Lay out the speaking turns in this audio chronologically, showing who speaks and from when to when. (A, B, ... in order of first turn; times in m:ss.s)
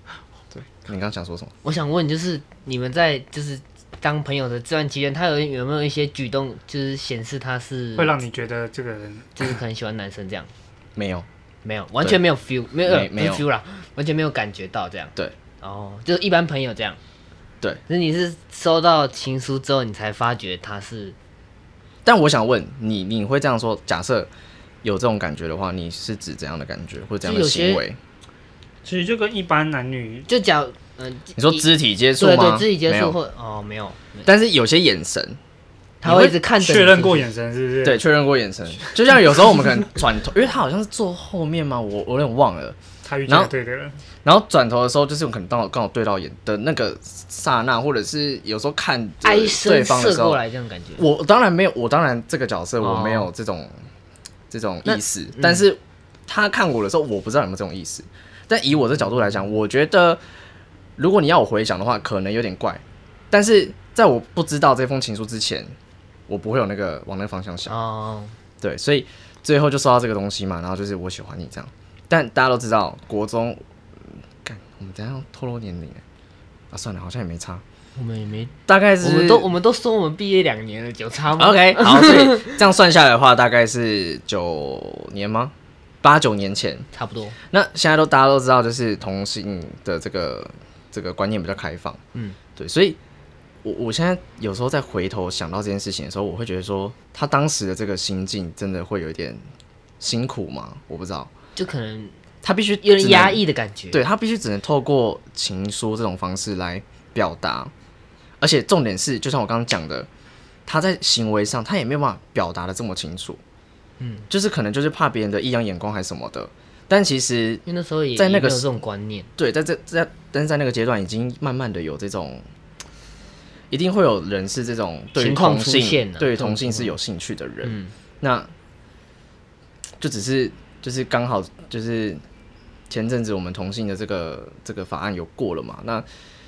0:00.5-0:01.5 A
0:01.6-0:08.2 B
0:08.0-0:09.6 C
0:09.4-0:10.5 B
0:11.0-0:11.3 A
0:11.6-0:17.0 B
0:12.8-0:13.4 A
0:17.9-0:21.2 B
0:22.0-0:24.3 A
0:24.8-0:28.0 A
0:27.2-0:27.8 B
0:28.8-0:30.3 C
0:30.3-0:34.3 B
0:31.4-0:33.2 A
0:34.2-0:35.4 A
0:36.0-0:37.3 B
0:36.0-0:36.4 A
0:36.6-0:38.0 C
0:37.8-0:43.5 A
0:43.0-0:44.0 C
0:44.2-0:50.4 A
0:49.2-0:51.0 B
0:51.0-0:53.7 A
0:52.8-0:53.3 B
0:54.5-1:00.2 A
0:54.8-0:55.6 B
1:01.0-1:05.7 A
1:06.3-1:07.8 A
1:07.7-1:08.4 B
1:08.6-1:13.6 A
1:14.4-1:16.0 A
1:16.7-1:17.6 A
1:18.0-1:22.6 B
1:18.7-1:19.5 A
1:21.4-1:26.9 A
1:26.9-1:27.4 B
1:27.5-1:32.0 A
1:32.6-1:33.0 A
1:33.6-1:39.4 A
1:40.0-1:41.3 A
1:41.6-1:42.2 B
1:42.4-1:43.4 A
1:42.8-1:44.0 B
1:43.9-1:47.7 A
1:48.4-1:50.1 A
1:50.7-1:53.4 A
1:54.0-1:54.3 B
1:54.3-1:57.6 A
1:57.6-1:59.3 B
1:58.2-1:58.8 A
1:59.4-2:02.4 A
2:03.7-2:08.5 A
2:05.2-2:07.0 B
2:07.6-2:07.9 B
2:10.0-2:12.2 A
2:12.9-2:16.1 A